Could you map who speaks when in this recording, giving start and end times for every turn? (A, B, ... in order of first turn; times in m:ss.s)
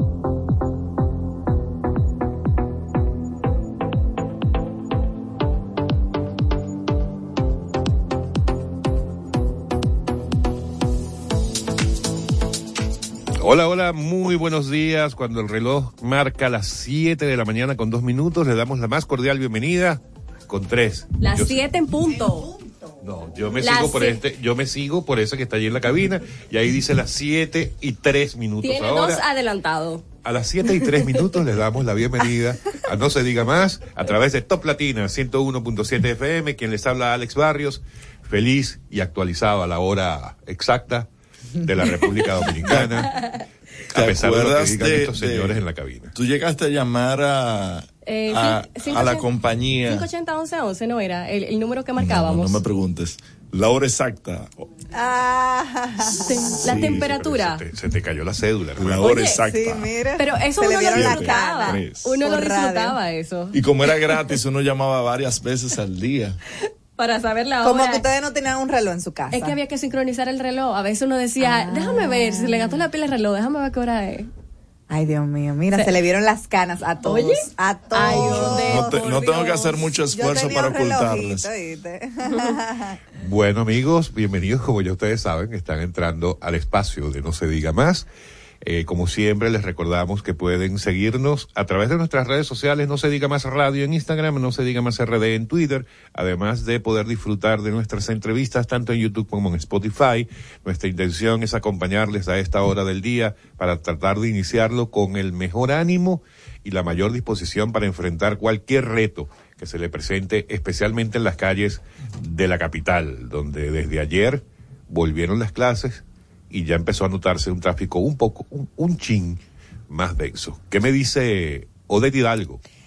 0:13.4-0:21.6 A
0:21.2-0:22.5 B
0:22.1-0:23.0 C
0:23.0-0:29.2 A
0:23.6-0:24.2 B
0:28.6-0:30.0 B
0:30.2-0:41.1 A
0:41.6-0:43.1 A
0:42.6-0:43.0 D
0:43.9-0:45.6 D
0:43.9-0:46.1 A
0:46.1-0:50.1 D
0:48.0-0:49.3 B
0:49.8-0:52.6 B
0:52.0-0:54.7 D
0:54.9-0:56.8 C
0:56.2-0:57.6 B
0:56.6-0:57.1 D
0:56.7-0:59.2 A
0:58.8-0:59.9 D
0:59.0-0:59.4 B
0:59.4-1:03.0 C
1:00.2-1:03.6 B
1:00.9-1:01.3 D
1:01.7-1:02.0 A
1:03.5-1:06.4 D
1:07.0-1:08.0 B
1:07.6-1:09.6 C
1:09.3-1:14.3 B
1:11.4-1:12.8 C
1:14.9-1:19.0 C
1:17.0-1:19.9 B
1:18.0-1:21.5 D
1:20.1-1:23.0 C
1:23.2-1:28.1 A
1:28.6-2:02.6 A